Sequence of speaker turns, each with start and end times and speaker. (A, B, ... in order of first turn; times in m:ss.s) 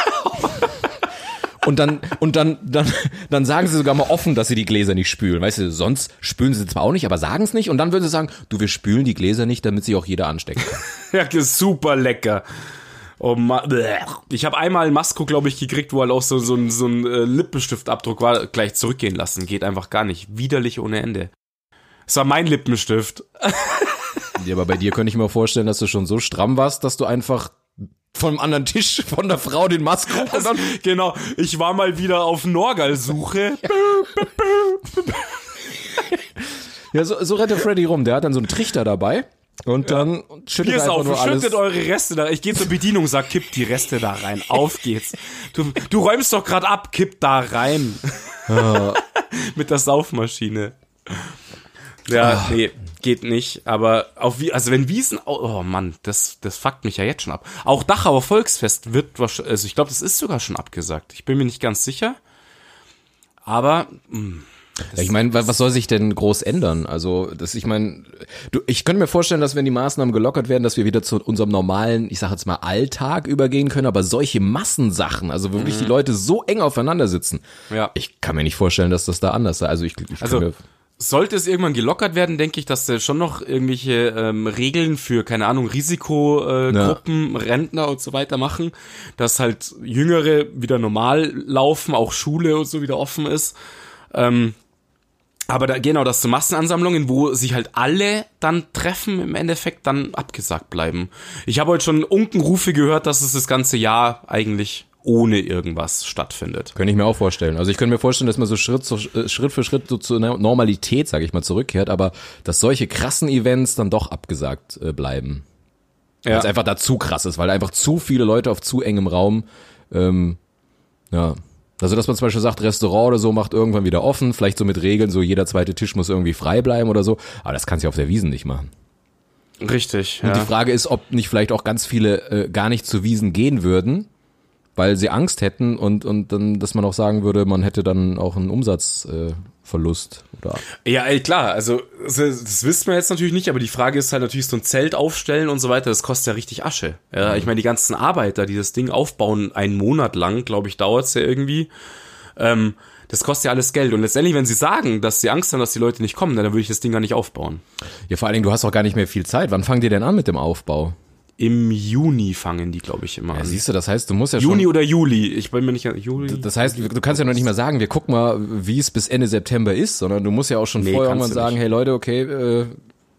0:00.3-0:00.6 A
0:01.6-0:10.8 B
0:10.8-0:12.4 A
0:13.2-0:21.3 A
0:22.1-0:24.2 A
0:24.4-0:30.7 B
0:30.1-0:35.2 A
0:33.8-0:34.3 B
0:36.9-0:41.6 B
0:40.6-0:51.3 A
0:48.5-0:49.0 B
0:52.0-1:02.2 A
0:52.2-0:52.5 B
1:03.4-1:05.5 A
1:04.9-1:20.6 B
1:15.6-1:15.9 A
1:20.2-1:20.4 A
1:21.0-1:33.6 A
1:26.7-1:27.0 B
1:34.1-1:34.6 A
1:35.5-1:46.7 A
1:46.7-1:55.4 B
1:56.3-2:00.4 B
2:01.1-2:08.7 B
2:09.6-2:10.5 A
2:10.2-2:14.1 B
2:14.8-2:20.6 B
2:20.8-2:31.7 A
2:27.2-2:27.5 B
2:32.4-2:37.6 A
2:38.1-2:40.9 B
2:41.4-2:43.6 A
2:43.3-2:44.7 B
2:44.4-2:47.5 A
2:46.2-2:52.8 B
2:50.8-2:51.6 A